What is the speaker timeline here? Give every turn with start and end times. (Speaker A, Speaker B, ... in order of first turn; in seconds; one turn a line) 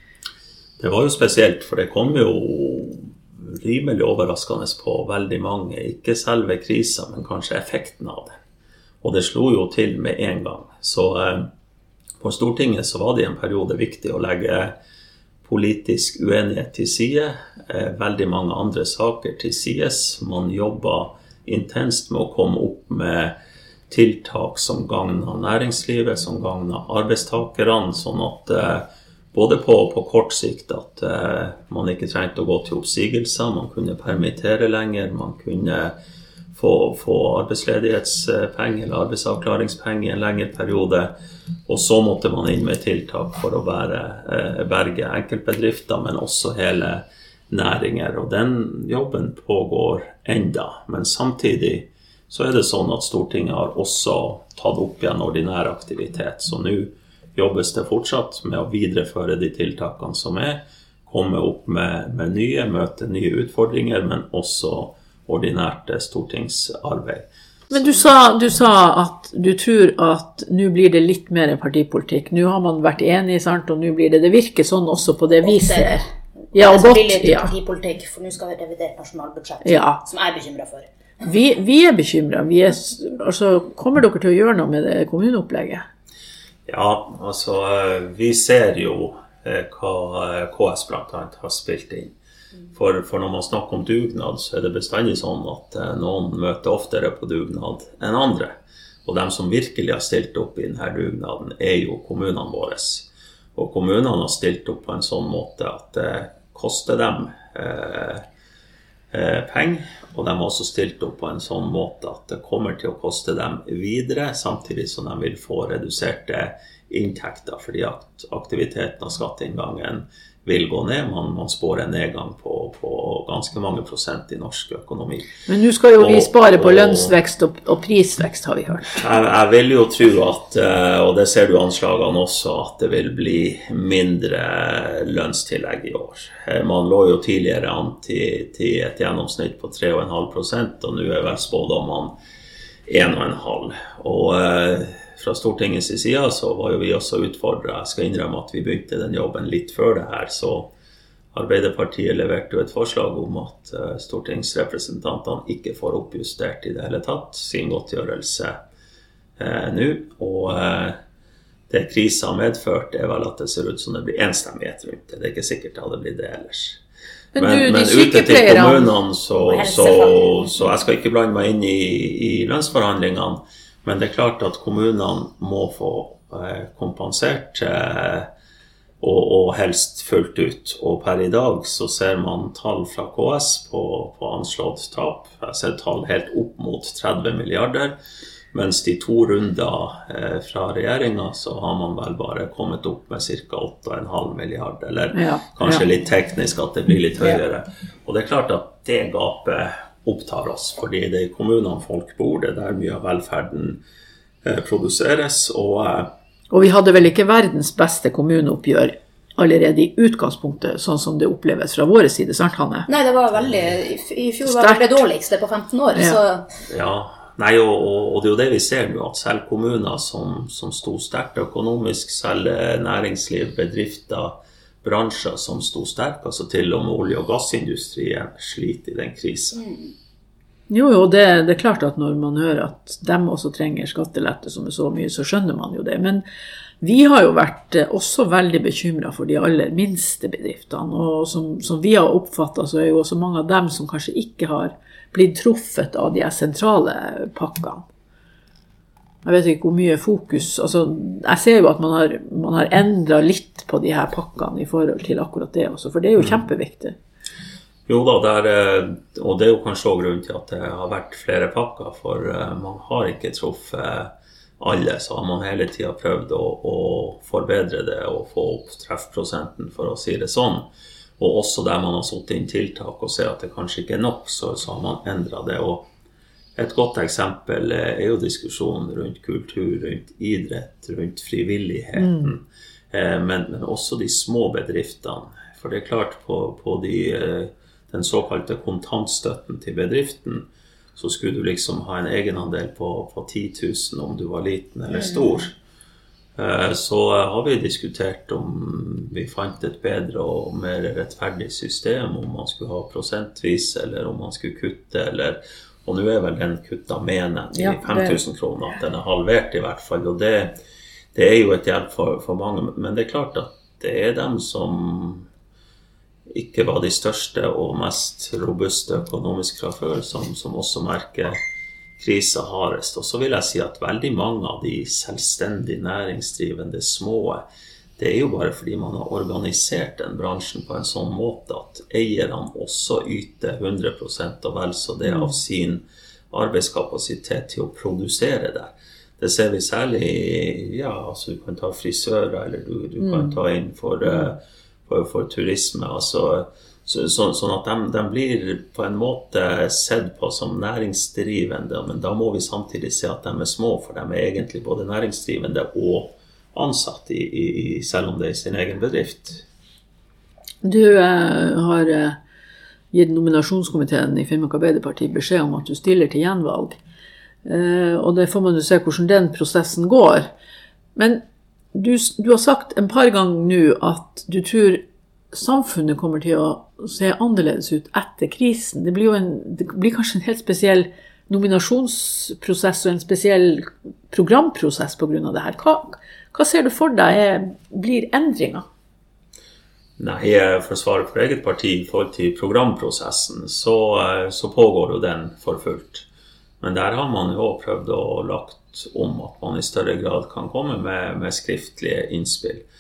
Speaker A: 0.8-8.3
Speaker A: 9.0-11.5
Speaker A: 12.2-14.8
Speaker A: 15.4-23.4
Speaker A: 23.9-35.9
Speaker A: 36.5-41.1
Speaker A: 41.7-67.3
Speaker B: 67.7-77.5
Speaker C: 75.4-76.0
Speaker C: 76.5-80.9
Speaker B: 79.6-80.0
Speaker B: 81.2-85.8
Speaker A: 86.7-92.2
Speaker A: 92.7-108.3
Speaker A: 109.1-125.3
Speaker B: 125.5-129.0
Speaker A: 126.0-127.2
Speaker A: 129.0-142.1
Speaker A: 142.9-150.7
Speaker A: 151.3-158.6
Speaker A: 159.4-161.0
Speaker A: 161.7-166.8
Speaker B: 167.3-168.9
Speaker A: 167.3-178.3
Speaker C: 169.3-170.6
Speaker A: 179.0-188.0
Speaker A: 188.5-203.8
Speaker B: 195.1-195.8
Speaker A: 204.4-206.1
Speaker B: 206.5-212.9
Speaker C: 212.9-216.5
Speaker B: 214.4-215.0
Speaker A: 216.7-229.6
Speaker C: 229.6-229.9
Speaker B: 230.7-236.2
Speaker B: 236.8-247.8
Speaker B: 249.2-257.0
Speaker A: 257.9-270.7
Speaker A: 271.2-275.9
Speaker A: 276.6-295.6
Speaker B: 282.0-282.4
Speaker C: 295.1-295.4
Speaker A: 296.4-310.6
Speaker B: 307.5-308.2
Speaker A: 311.1-315.3
Speaker A: 316.3-321.4
Speaker A: 322.0-327.4
Speaker A: 328.0-359.4
Speaker B: 335.1-335.4
Speaker B: 343.0-343.4
Speaker B: 360.6-362.2
Speaker B: 362.9-366.8
Speaker B: 367.4-370.3
Speaker B: 371.0-388.6
Speaker A: 390.0-396.1
Speaker A: 396.6-402.6